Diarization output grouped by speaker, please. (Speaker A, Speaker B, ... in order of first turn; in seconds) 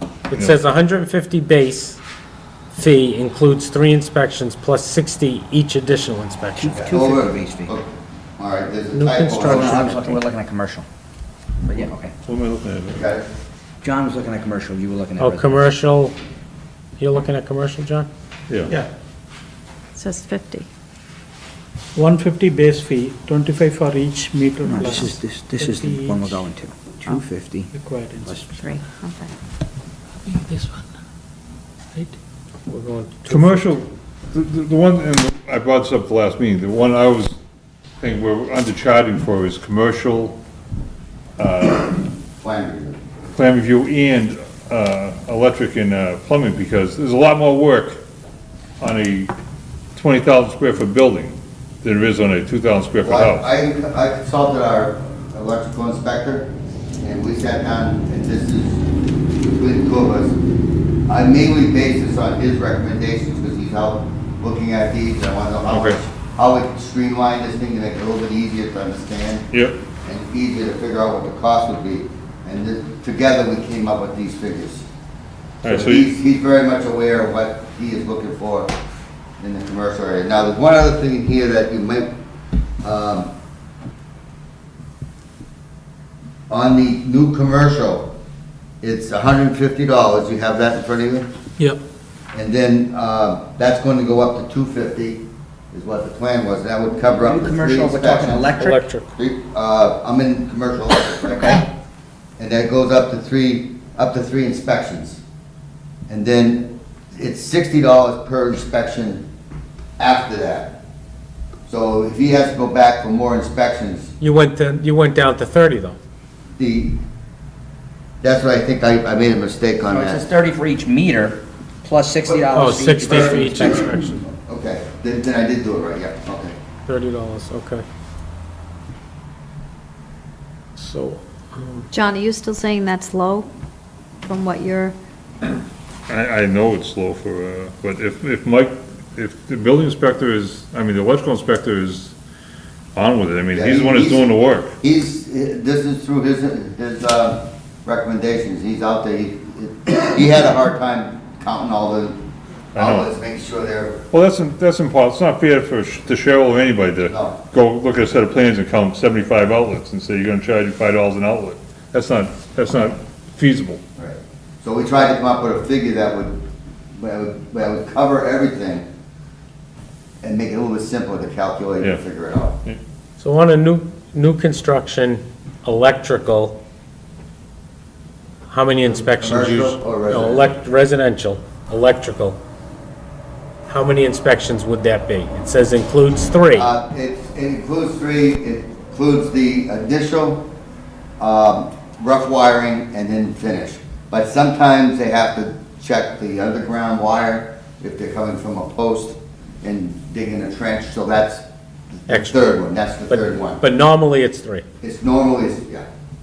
Speaker A: 0.3-2.0, 2.7-6.8, 8.9-10.2, 15.2-16.1, 17.0-18.1, 32.7-33.8, 98.6-99.1, 114.2-116.0, 122.5-124.2, 126.8-127.8, 130.8-131.9, 173.2-176.6, 178.5-182.4, 183.7-186.7, 202.1-204.6
Speaker B: 0.3-0.6, 12.3-13.1, 18.5-18.7, 33.3-37.3, 38.0-40.4, 41.4-42.0, 43.3-48.0, 48.8-49.3, 50.0-53.5, 65.7-66.0, 69.5-69.8, 75.6-76.1, 136.1-142.1, 142.9-144.7, 152.7-153.1, 154.1-163.8
Speaker C: 6.5-7.7, 9.4-10.8, 11.6-12.1, 13.8-15.6, 24.6-27.7, 28.2-28.5, 97.1-98.8, 119.9-123.7
Speaker D: 6.7-9.9, 12.9-13.3, 42.4-43.0, 53.0-56.5, 57.0-58.8, 59.4-60.4, 61.1-69.5, 70.0-74.9, 75.6-78.7, 79.4-82.1, 82.8-83.3, 86.5-88.1, 88.8-91.3, 92.3-98.6, 99.2-101.7, 102.4-105.2, 106.1-109.2, 110.0-110.8, 111.7-114.1, 116.6-117.0, 118.2-120.2, 122.2-126.5, 143.5-152.2, 152.7-154.0, 157.1-157.4, 163.9-166.4, 166.9-168.8, 170.2-172.6, 178.8-180.5, 186.5-190.4, 191.2-203.6, 204.8-205.8
Speaker E: 19.9-20.7, 28.5-29.3, 131.9-133.5, 134.2-135.0
Speaker F: 21.9-26.4, 27.7-28.4